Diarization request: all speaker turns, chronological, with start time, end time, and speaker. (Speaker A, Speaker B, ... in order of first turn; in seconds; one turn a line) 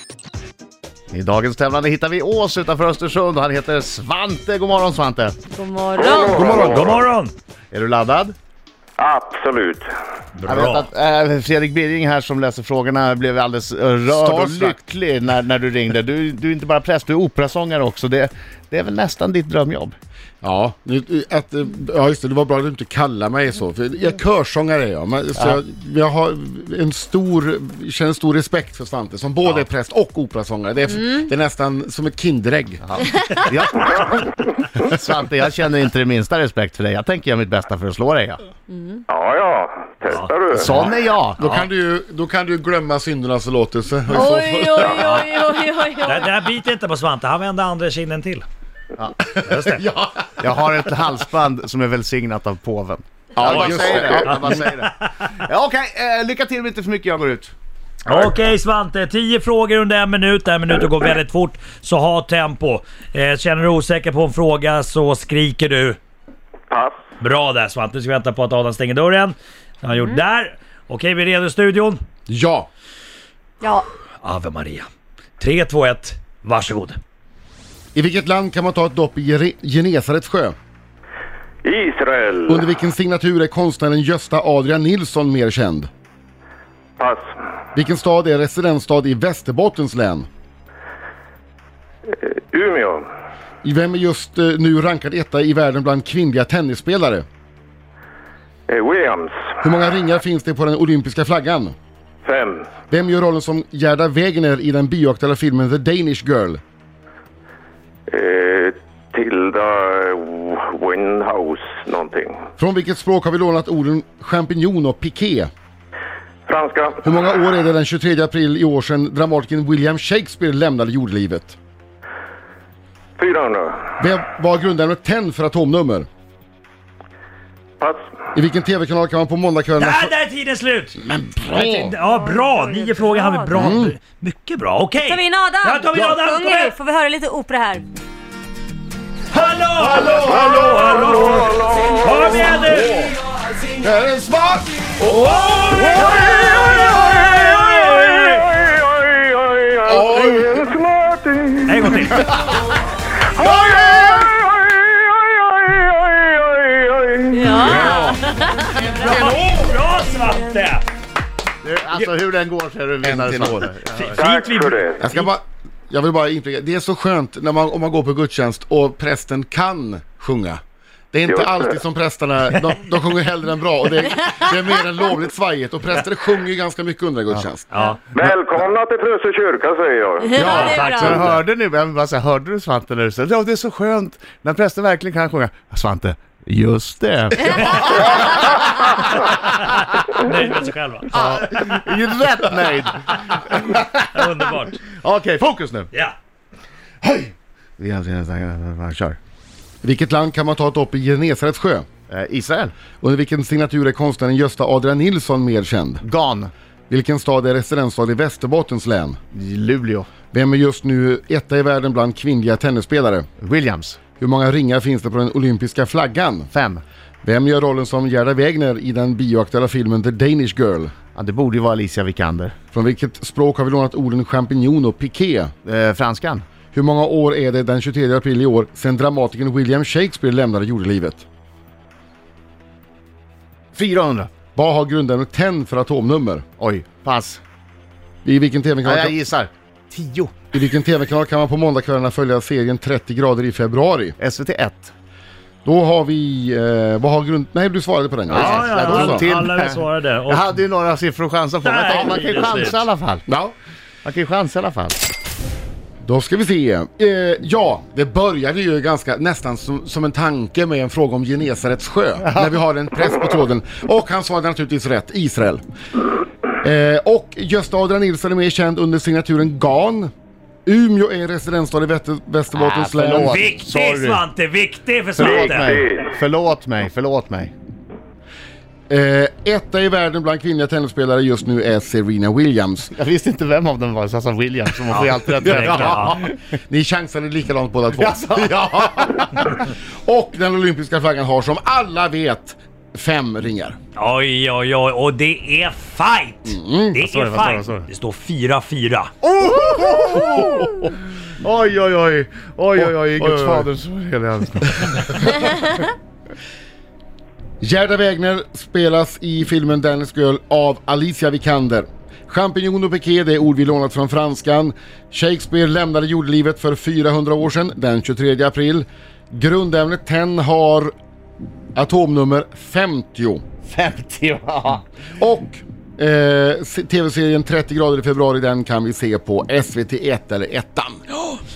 Speaker A: 1.1-5.4
Speaker B: 5.4-6.4
Speaker C: 5.9-7.0
Speaker D: 6.2-7.0
Speaker E: 6.6-7.3
Speaker A: 7.7-8.3
Speaker C: 9.0-9.8
Speaker E: 10.3-10.9
Speaker A: 10.4-19.9
Speaker D: 14.1-14.8
Speaker D: 20.4-33.2
Speaker A: 32.9-38.4
Speaker B: 38.7-39.0
Speaker C: 39.1-40.8
Speaker E: 40.1-40.9
Speaker A: 40.5-41.4
Speaker D: 41.4-45.4
Speaker E: 41.4-41.6
Speaker B: 44.1-46.3
Speaker E: 46.0-48.4
Speaker E: 49.5-49.8
Speaker D: 49.5-50.9
Speaker A: 50.4-57.5
Speaker D: 53.3-54.6
Speaker E: 53.4-55.1
Speaker E: 58.0-66.0
Speaker C: 66.7-67.0
Speaker E: 67.2-72.0
Speaker D: 72.3-72.7
Speaker B: 73.6-73.8
Speaker E: 74.2-74.8
Speaker E: 75.4-77.0
Speaker D: 77.9-80.5
Speaker C: 81.6-82.6
Speaker D: 82.5-85.9
Speaker C: 87.0-87.2
Speaker D: 87.7-90.3
Speaker C: 92.1-93.0
Speaker D: 93.6-97.2
Speaker C: 98.7-99.5
Speaker D: 99.6-101.7
Speaker C: 102.2-102.7
Speaker D: 102.9-106.6
Speaker C: 108.1-112.4
Speaker D: 112.6-115.5
Speaker C: 116.5-117.0
Speaker D: 117.0-121.6
Speaker C: 123.2-123.9
Speaker D: 124.0-126.1
Speaker D: 128.3-130.1
Speaker E: 129.8-136.7
Speaker D: 131.0-131.9
Speaker B: 132.0-133.5
Speaker D: 133.5-133.9
Speaker B: 135.0-137.8
Speaker E: 139.3-143.1
Speaker D: 139.8-141.0
Speaker C: 140.9-142.1
Speaker D: 142.7-143.2
Speaker D: 143.7-146.5
Speaker E: 145.0-148.5
Speaker C: 145.8-147.0
Speaker C: 148.2-152.1
Speaker D: 149.8-150.7
Speaker E: 151.7-152.3
Speaker C: 153.3-157.9
Speaker B: 157.3-158.9
Speaker D: 157.5-158.2
Speaker E: 158.9-160.8
Speaker D: 159.0-159.4
Speaker A: 161.6-164.2
Speaker D: 163.0-163.7
Speaker E: 163.9-164.8
Speaker C: 164.2-165.0
Speaker D: 165.0-170.6
Speaker D: 171.1-177.7
Speaker C: 171.3-171.7
Speaker E: 177.7-178.0
Speaker C: 178.1-180.5
Speaker B: 180.2-181.2
Speaker D: 180.3-181.3
Speaker E: 180.4-181.3
Speaker A: 180.8-189.3
Speaker E: 189.6-191.7
Speaker A: 191.1-194.3
Speaker E: 194.0-194.8
Speaker A: 194.9-195.9
Speaker A: 197.0-199.2
Speaker D: 199.8-201.8
Speaker A: 202.1-202.7
Speaker D: 203.0-206.0
Speaker A: 206.0-206.5
Speaker D: 206.9-209.2
Speaker A: 209.3-210.1
Speaker D: 210.3-213.3
Speaker A: 213.4-214.0
Speaker D: 214.2-216.5
Speaker A: 216.5-216.8
Speaker D: 217.2-220.9
Speaker A: 221.1-222.5
Speaker D: 222.7-225.5
Speaker A: 225.6-226.4
Speaker D: 226.7-231.2
Speaker A: 233.7-234.3
Speaker D: 234.5-236.4
Speaker A: 236.6-237.4
Speaker D: 238.2-239.2
Speaker A: 238.8-240.3
Speaker D: 240.5-244.2
Speaker A: 244.2-244.9
Speaker D: 245.6-249.3
Speaker A: 248.3-253.2
Speaker E: 248.3-250.6
Speaker E: 251.6-252.9
Speaker D: 253.3-253.5
Speaker A: 254.0-255.0
Speaker D: 256.0-265.6
Speaker D: 266.6-270.1
Speaker D: 270.6-273.6
Speaker A: 272.5-274.2
Speaker E: 273.2-275.7
Speaker A: 275.1-277.5
Speaker C: 275.2-276.1
Speaker D: 278.9-282.9
Speaker A: 282.9-286.4
Speaker E: 284.9-286.2
Speaker D: 285.4-293.8
Speaker A: 287.9-289.4
Speaker E: 293.9-299.1
Speaker D: 296.4-297.1
Speaker A: 297.0-297.9
Speaker A: 299.2-305.4
Speaker D: 302.8-303.7
Speaker D: 307.6-320.9
Speaker D: 321.7-323.4
Speaker A: 323.6-324.8
Speaker D: 325.2-331.2